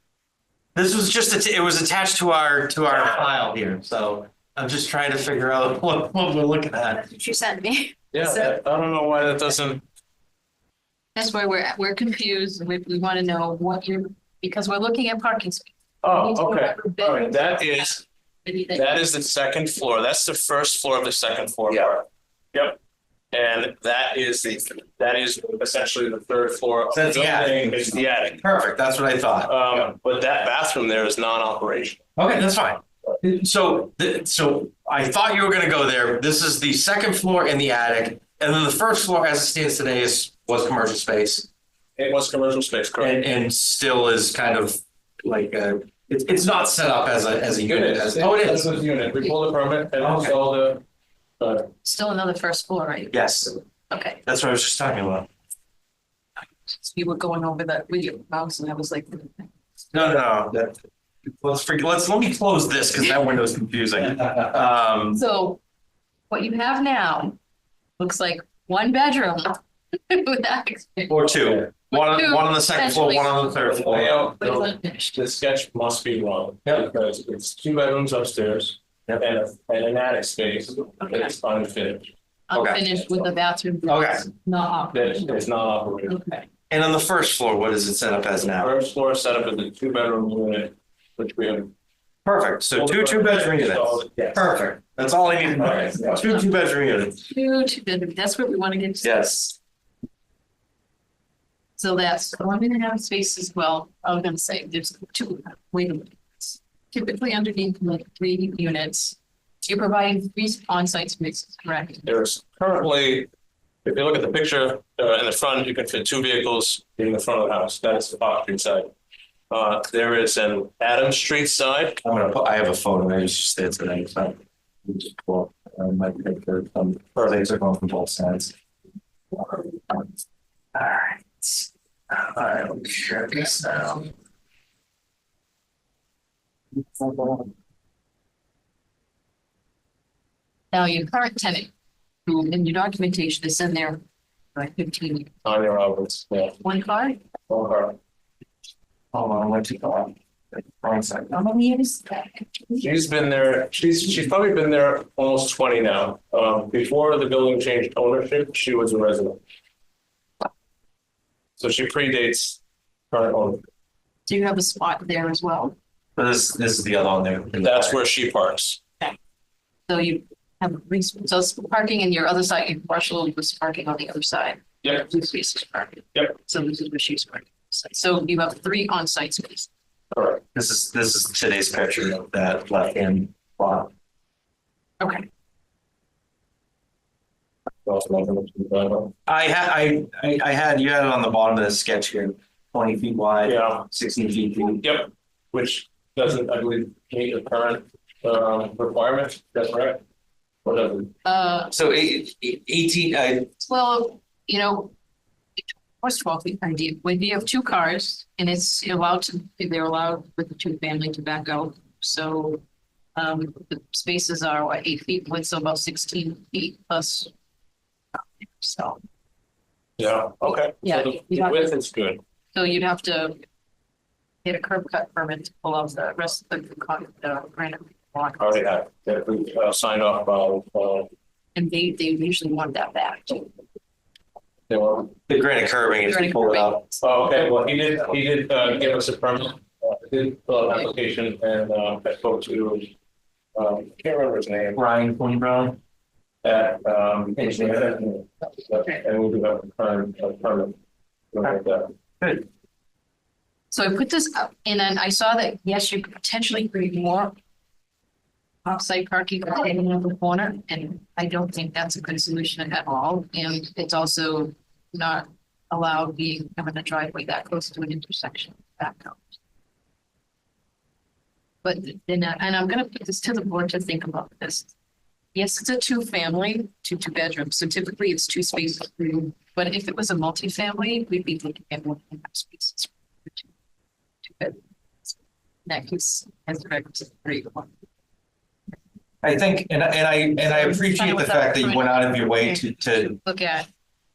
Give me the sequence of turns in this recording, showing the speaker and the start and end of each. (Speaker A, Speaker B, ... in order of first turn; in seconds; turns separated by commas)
Speaker A: 0.7-7.0, Speaker B: 7.0-8.5, Speaker C: 8.1-9.8, Speaker B: 11.1-19.0, Speaker C: 16.0-18.0, Speaker C: 18.7-22.8, Speaker C: 23.3-28.4, Speaker A: 26.9-29.5, Speaker C: 29.4-32.0, Speaker A: 32.2-41.5, Speaker C: 42.0-43.2, Speaker A: 43.0-48.7, Speaker C: 47.6-50.8, Speaker A: 50.0-50.4, Speaker C: 51.4-51.7, Speaker B: 51.8-53.2, Speaker A: 53.1-53.6, Speaker B: 53.9-54.2, Speaker A: 54.2-55.3, Speaker B: 56.6-59.5, Speaker A: 59.9-65.2, Speaker B: 65.1-65.6, Speaker B: 66.3-67.4, Speaker B: 68.0-75.2, Speaker A: 71.1-74.3, Speaker C: 73.6-82.1, Speaker B: 81.0-81.3, Speaker B: 82.5-85.5, Speaker A: 82.5-83.0, Speaker A: 83.8-84.2, Speaker C: 84.9-86.2, Speaker B: 86.0-86.5, Speaker A: 86.7-88.7, Speaker C: 88.6-91.7, Speaker A: 92.2-97.2, Speaker C: 92.7-94.4, Speaker C: 95.6-96.3, Speaker B: 97.2-99.2, Speaker A: 99.0-99.5, Speaker B: 101.8-112.1, Speaker C: 112.0-113.3, Speaker C: 113.8-118.9, Speaker C: 119.5-122.0, Speaker A: 122.0-128.5, Speaker A: 129.3-130.1, Speaker A: 130.7-134.1, Speaker A: 137.0-137.4, Speaker B: 140.7-141.7, Speaker B: 142.2-144.0, Speaker B: 144.5-145.3, Speaker C: 145.4-146.6, Speaker B: 146.6-147.2, Speaker C: 147.5-148.0, Speaker A: 149.1-151.8, Speaker B: 151.8-152.8, Speaker C: 152.8-159.4, Speaker C: 161.6-162.6, Speaker C: 163.1-163.6, Speaker B: 164.2-165.8, Speaker A: 166.2-168.0, Speaker C: 167.6-168.8, Speaker B: 169.9-179.7, Speaker C: 180.1-180.4, Speaker A: 180.5-183.9, Speaker B: 185.0-185.3, Speaker C: 187.8-189.1, Speaker A: 189.3-194.8, Speaker C: 193.4-193.8, Speaker C: 194.8-200.0, Speaker C: 200.6-201.1, Speaker B: 201.2-201.7, Speaker A: 201.7-203.5, Speaker B: 203.6-204.9, Speaker B: 205.6-212.6, Speaker B: 213.2-217.3, Speaker B: 218.1-219.0, Speaker C: 220.0-222.2, Speaker B: 220.5-221.7, Speaker B: 222.5-223.4, Speaker B: 224.4-228.7, Speaker C: 228.4-231.1, Speaker B: 231.5-233.5, Speaker C: 234.7-235.1, Speaker A: 235.3-236.8, Speaker B: 236.0-237.0, Speaker C: 237.0-242.9, Speaker C: 243.5-244.8, Speaker A: 244.7-245.8, Speaker C: 246.4-250.8, Speaker A: 247.4-247.9, Speaker C: 251.3-251.9, Speaker A: 252.2-252.4, Speaker B: 253.7-257.3, Speaker B: 258.6-269.2, Speaker B: 271.6-274.7, Speaker B: 275.3-283.5, Speaker B: 284.2-284.6, Speaker B: 285.6-287.7, Speaker A: 289.2-293.2, Speaker B: 290.4-292.6, Speaker B: 293.2-293.7